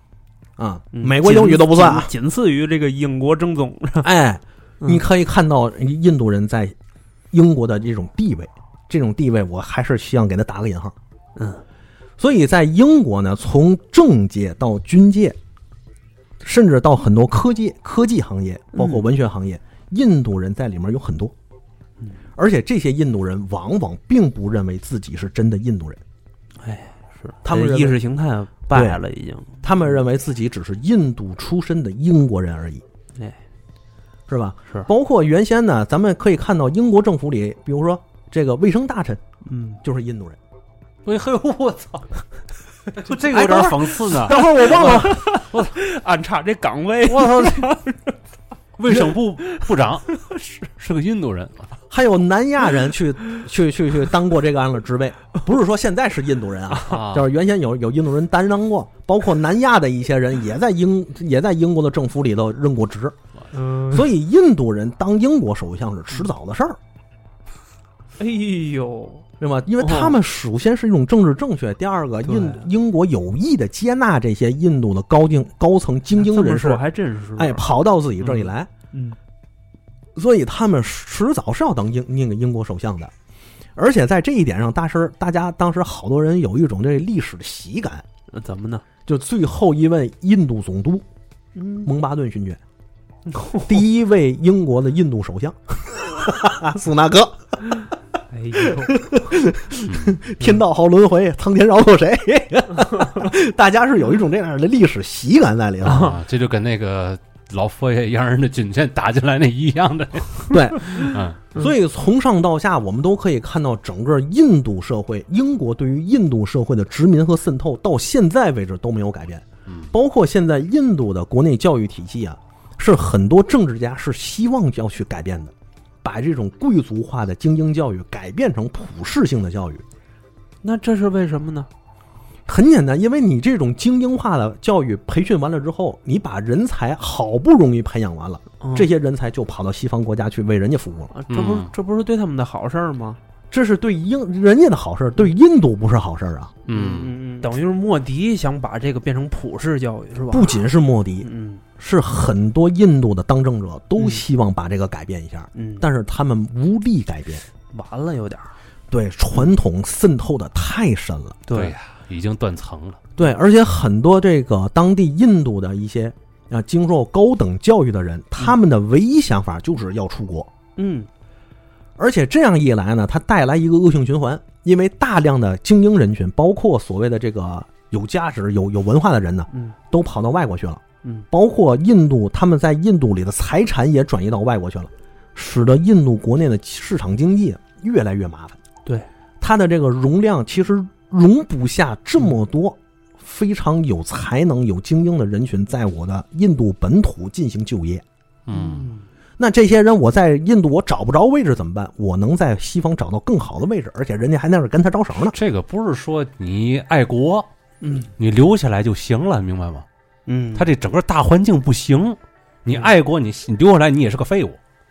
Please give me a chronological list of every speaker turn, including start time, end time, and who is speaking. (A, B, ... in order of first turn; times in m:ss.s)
0:00.6-0:02.1 A
0:00.9-0:04.1 B
0:04.0-0:06.8 A
0:07.3-0:11.0 A
0:11.4-0:11.6 B
0:12.2-0:15.4 A
0:16.4-0:21.3 A
0:18.7-0:19.1 B
0:22.4-0:26.0 A
0:26.6-0:29.9 B
0:27.4-0:28.0 A
0:28.7-0:29.0 A
0:29.6-0:32.8 A
0:34.3-0:39.2 A
0:39.4-0:39.8 B
0:39.8-0:40.4 A
0:41.0-0:42.2 C
0:42.9-0:45.8 C
0:43.1-0:44.4 A
0:44.1-0:48.1 B
0:47.1-0:47.8 C
0:48.8-0:51.8 C
0:49.4-0:50.4 B
0:51.9-1:03.2 A
0:56.9-0:57.3 C
1:03.5-1:04.1 B
1:03.9-1:06.8 A
1:08.2-1:09.3 B
1:09.4-1:16.8 A
1:09.8-1:10.2 B
1:12.2-1:12.7 B
1:16.2-1:17.6 B
1:17.4-1:18.7 A
1:18.2-1:19.2 B
1:20.2-1:23.1 A
1:23.8-1:28.0 A
1:28.3-1:28.8 B
1:29.1-1:31.0 A
1:31.6-1:31.9 B
1:31.8-1:32.6 A
1:33.3-1:33.8 B
1:33.6-1:37.6 A
1:38.3-1:39.1 B
1:38.6-1:46.1 A
1:45.8-1:46.2 B
1:45.9-1:51.5 C
1:50.5-2:05.5 A
1:50.8-1:51.7 B
1:59.7-1:59.9 C
2:06.0-2:09.8 A
2:10.6-2:11.7 B
2:12.5-2:21.1 A
2:18.6-2:18.9 B
2:21.1-2:23.2 B
2:21.3-2:21.7 C
2:23.5-2:26.5 A
2:26.7-2:27.2 C
2:26.7-2:30.7 B
2:30.3-2:31.3 A
2:31.2-2:31.6 B
2:31.8-2:37.4 A
2:35.5-2:35.9 B
2:37.7-2:38.6 B
2:38.9-2:41.4 A
2:41.5-2:41.7 B
2:41.5-2:43.0 C
2:43.2-2:50.5 A
2:50.8-2:51.1 B
2:52.0-3:08.6 A
2:59.5-2:59.8 B
3:09.4-3:18.0 A
3:18.5-3:18.9 C
3:18.5-3:19.1 B
3:19.4-3:25.4 A
3:25.2-3:27.5 C
3:27.8-3:28.1 B
3:28.2-3:29.9 C
3:30.3-3:30.7 B
3:30.6-3:34.6 C